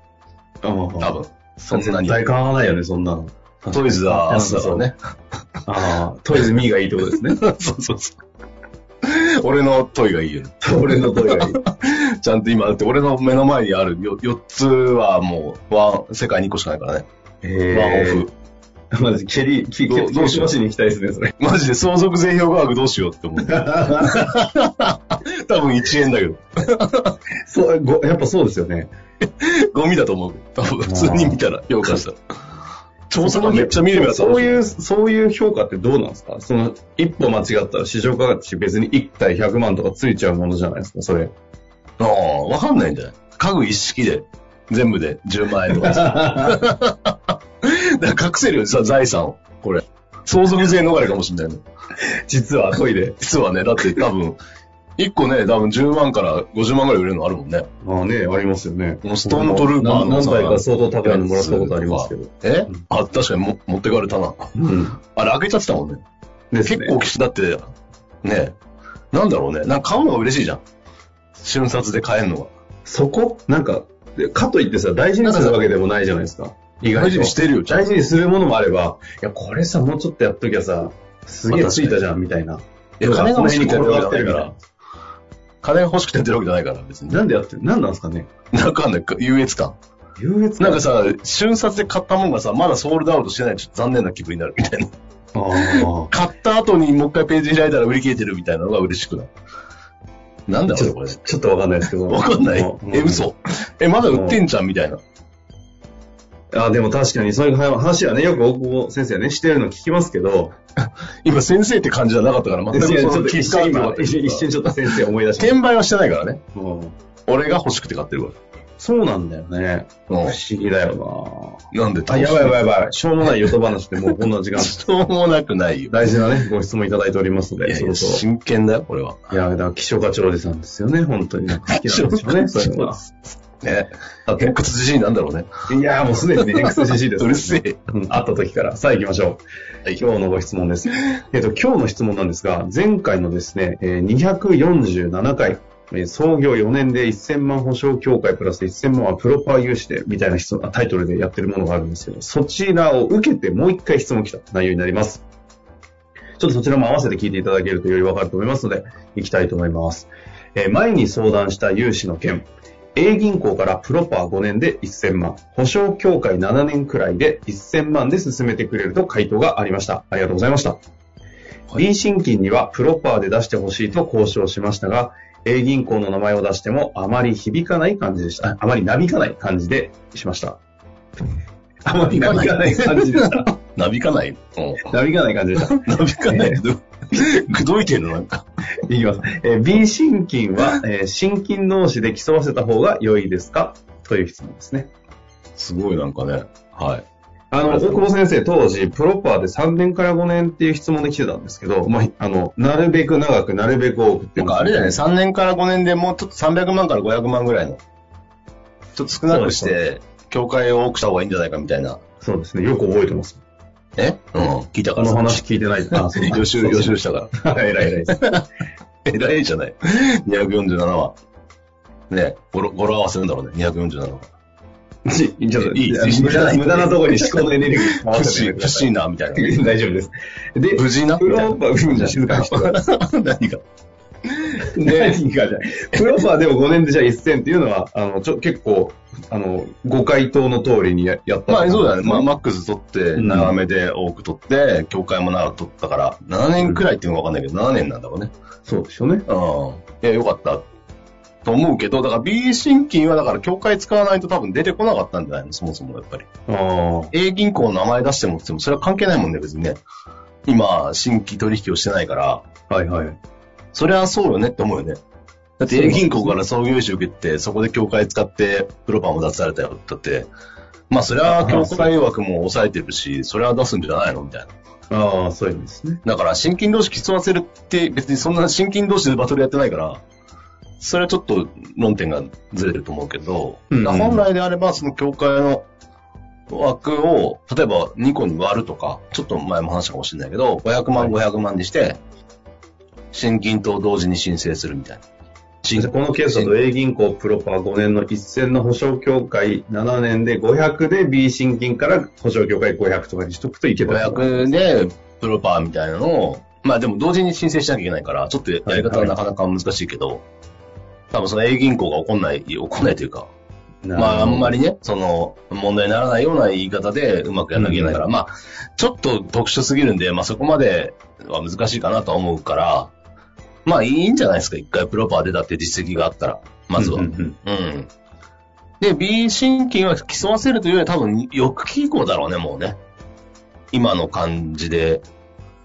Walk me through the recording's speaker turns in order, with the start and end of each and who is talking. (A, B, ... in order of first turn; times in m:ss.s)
0:00.6-0:04.9 A
0:01.0-0:02.2 B
0:03.7-0:05.0 B
0:05.6-0:07.4 A
0:07.1-0:08.2 B
0:09.0-0:17.0 B
0:10.6-0:11.6 A
0:17.4-0:18.3 A
0:17.7-0:18.3 B
0:18.9-0:21.3 A
0:19.8-0:20.5 B
0:21.4-0:27.1 B
0:23.5-0:24.3 A
0:27.4-0:28.9 A
0:29.2-0:32.2 B
0:30.8-0:32.0 A
0:33.1-0:34.6 B
0:33.2-0:41.3 A
0:42.0-0:51.6 B
0:45.6-0:46.6 A
0:52.0-0:53.2 A
0:53.2-0:54.4 B
0:53.8-0:54.1 A
0:55.0-0:57.7 B
0:57.8-1:02.8 A
0:59.0-1:04.5 B
1:04.5-1:05.0 A
1:05.0-1:06.0 B
1:06.5-1:07.0 A
1:06.6-1:07.7 B
1:08.2-1:08.5 B
1:09.1-1:10.6 B
1:11.4-1:12.5 B
1:12.8-1:24.6 A
1:15.2-1:15.6 B
1:16.9-1:17.9 B
1:21.5-1:22.0 B
1:23.0-1:24.5 B
1:25.6-1:27.2 B
1:27.1-1:28.3 A
1:28.5-1:29.8 B
1:30.2-1:30.9 A
1:30.6-1:34.9 B
1:35.3-1:36.1 A
1:35.5-1:39.3 B
1:40.5-1:41.2 B
1:40.7-1:43.3 A
1:42.0-1:45.0 B
1:44.0-1:44.4 A
1:46.5-1:50.6 A
1:50.8-1:56.4 B
1:52.7-1:55.6 A
1:56.5-1:56.9 A
1:57.3-1:58.4 B
1:58.8-2:04.8 A
2:00.1-2:00.4 B
2:01.7-2:02.6 B
2:03.2-2:03.5 B
2:04.5-2:06.2 B
2:05.9-2:08.2 A
2:07.6-2:09.3 B
2:09.3-2:13.0 A
2:11.5-2:15.5 B
2:14.3-2:14.6 A
2:15.7-2:35.2 A
2:16.4-2:17.8 B
2:36.4-2:50.8 A
2:51.7-3:00.6 A
3:01.8-3:03.6 A
3:02.0-3:04.9 B
3:04.8-3:06.6 A
3:05.6-3:08.4 B
3:08.8-3:14.9 A
3:15.6-3:17.0 B
3:17.5-3:25.0 A
3:17.6-3:18.1 B
3:24.4-3:27.8 B
3:29.0-3:32.0 B
3:29.3-3:29.8 A
3:32.2-3:33.4 A
3:34.0-3:38.4 B
3:34.9-3:38.4 A
3:39.0-3:41.2 B
3:42.1-3:44.3 B
3:45.0-3:52.8 A
3:45.6-3:49.6 B
3:50.7-3:53.6 B
3:54.3-3:55.2 B
3:54.7-4:02.3 A
4:01.5-4:08.3 B
4:03.1-4:03.6 A
4:08.6-4:09.3 A
4:09.3-4:10.6 B
4:11.4-4:16.3 B
4:16.5-4:17.1 A
4:17.1-4:19.8 B
4:20.4-4:22.4 B
4:22.7-4:23.2 A
4:23.7-4:25.0 B
4:25.6-4:30.3 B
4:25.6-4:26.4 A
4:30.9-4:34.5 B
4:31.2-4:31.9 A
4:34.9-4:36.0 A
4:36.0-4:40.0 B
4:40.8-4:45.6 B
4:43.7-4:44.3 A
4:46.5-4:52.0 B
4:53.1-4:55.0 B
4:55.6-4:56.5 B
4:55.7-5:04.6 A
5:03.9-5:10.2 B
5:08.6-5:09.2 A
5:11.1-5:13.3 B
5:13.8-5:14.6 A
5:13.9-5:22.9 B
5:17.5-5:18.0 A
5:23.6-5:27.9 B
5:26.8-5:27.4 A
5:28.8-5:32.8 B
5:33.7-5:35.0 B